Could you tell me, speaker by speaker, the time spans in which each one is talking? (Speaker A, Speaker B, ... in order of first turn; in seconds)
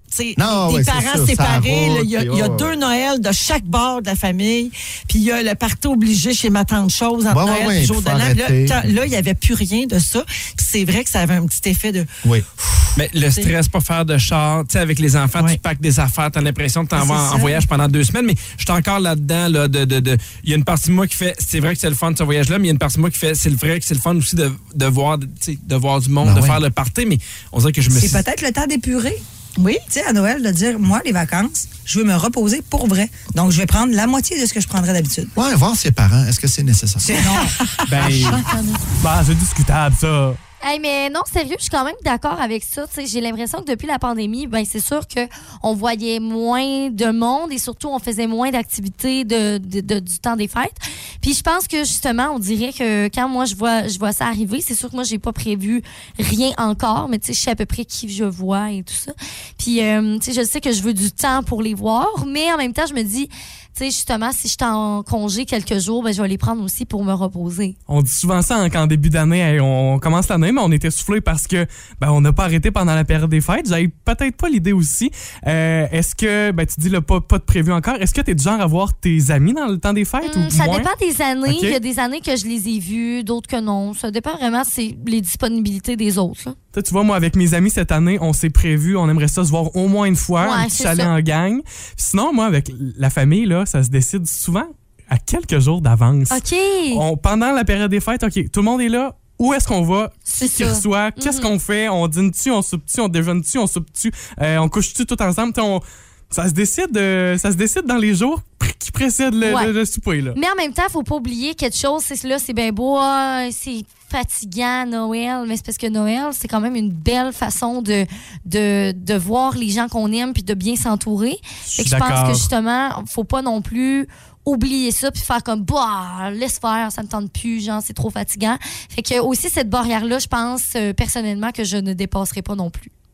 Speaker A: 0.1-12.1, 16.9-17.6, 38.2-38.7
Speaker B: 0.3-2.8, 7.2-8.9, 26.2-26.6, 35.4-37.3
Speaker C: 12.9-28.2, 38.0-38.4
Speaker D: 27.9-29.2, 29.8-35.3, 37.0-37.5
Speaker E: 37.9-38.4, 39.0-40.4, 67.9-80.9, 81.5-81.8, 86.7-110.4, 121.7-122.5
Speaker F: 40.6-67.8, 80.2-86.5, 90.4-91.1, 96.3-97.0, 100.3-101.5, 109.4-109.7, 110.3-132.9